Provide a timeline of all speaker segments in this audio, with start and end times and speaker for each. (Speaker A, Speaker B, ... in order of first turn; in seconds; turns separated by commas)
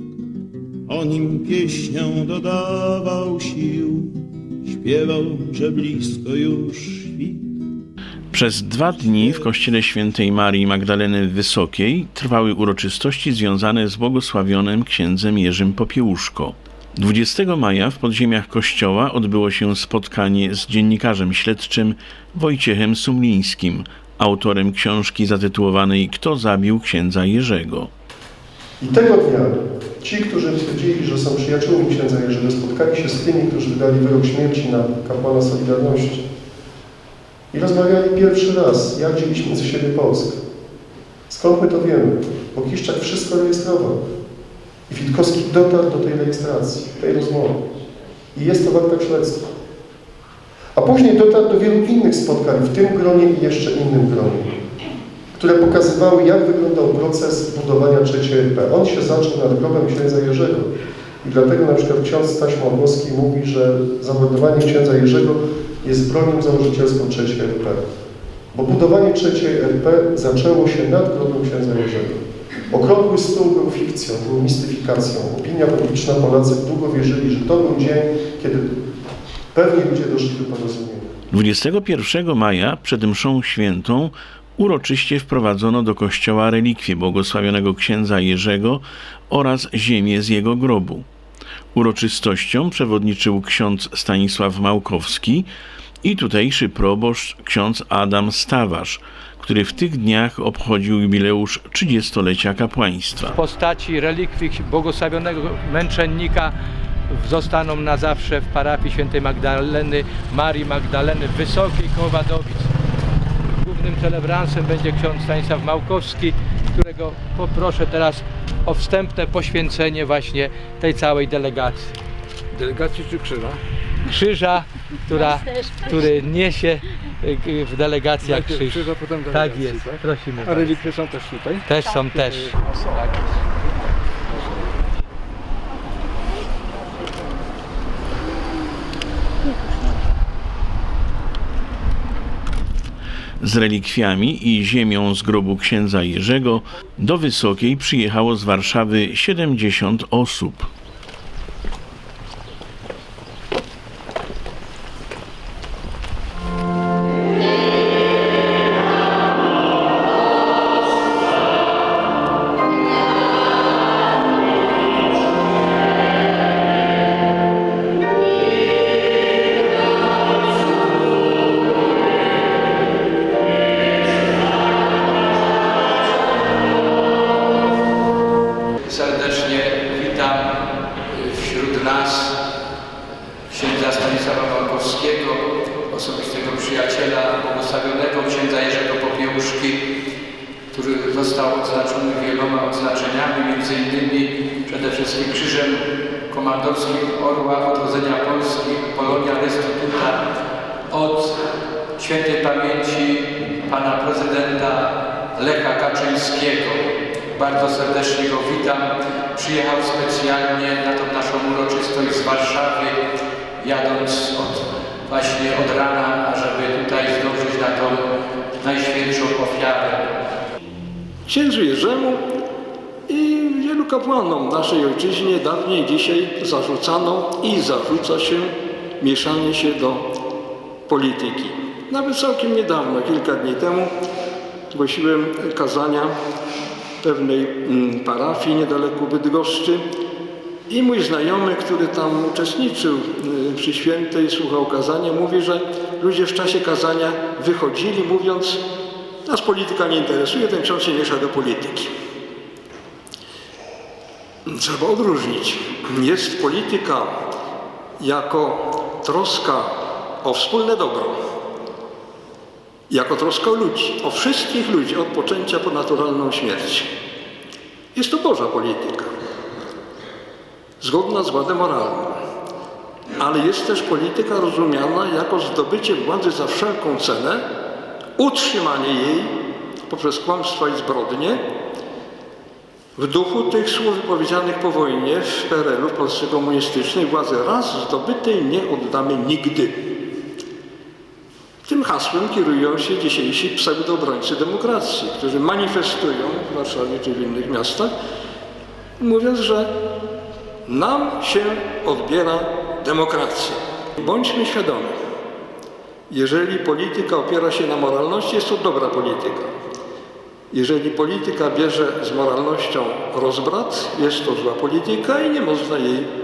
Speaker A: 0.9-7.6, Speaker B: 8.3-27.9, Speaker A: 9.0-9.5, Speaker C: 28.8-36.2, Speaker C: 37.5-40.4, Speaker C: 41.3-44.0, Speaker C: 44.9-47.6, Speaker C: 48.3-49.5, Speaker C: 50.7-54.5, Speaker C: 55.3-60.7, Speaker C: 61.2-67.8, Speaker C: 68.5-78.7, Speaker C: 79.5-81.1, Speaker B: 81.3-91.0, Speaker B: 91.7-95.5, Speaker B: 96.0-103.4, Speaker D: 103.3-106.5, Speaker D: 107.1-112.7, Speaker D: 113.5-122.0, Speaker E: 122.5-123.6, Speaker D: 124.0-130.8, Speaker E: 128.2-132.5, Speaker D: 131.7-132.5, Speaker B: 143.4-150.7, Speaker D: 178.8-182.4, Speaker D: 183.5-189.8, Speaker D: 190.7-200.2, Speaker D: 200.9-201.4, Speaker D: 201.9-212.9, Speaker D: 213.6-218.1, Speaker D: 218.6-220.2, Speaker E: 221.3-222.2, Speaker E: 223.1-230.1, Speaker E: 230.9-233.9, Speaker E: 234.7-236.1, Speaker E: 237.0-239.8, Speaker E: 240.7-248.6, Speaker E: 249.2-251.9, Speaker E: 254.5-257.2, Speaker E: 258.0-261.2, Speaker E: 262.9-266.9, Speaker E: 267.9-269.1, Speaker E: 270.8-272.2, Speaker E: 273.2-277.4, Speaker E: 278.2-279.3, Speaker E: 279.9-281.4, Speaker E: 282.9-289.8, Speaker E: 291.6-297.9, Speaker E: 299.0-299.7, Speaker E: 300.6-304.9, Speaker E: 306.1-309.5, Speaker E: 310.5-316.1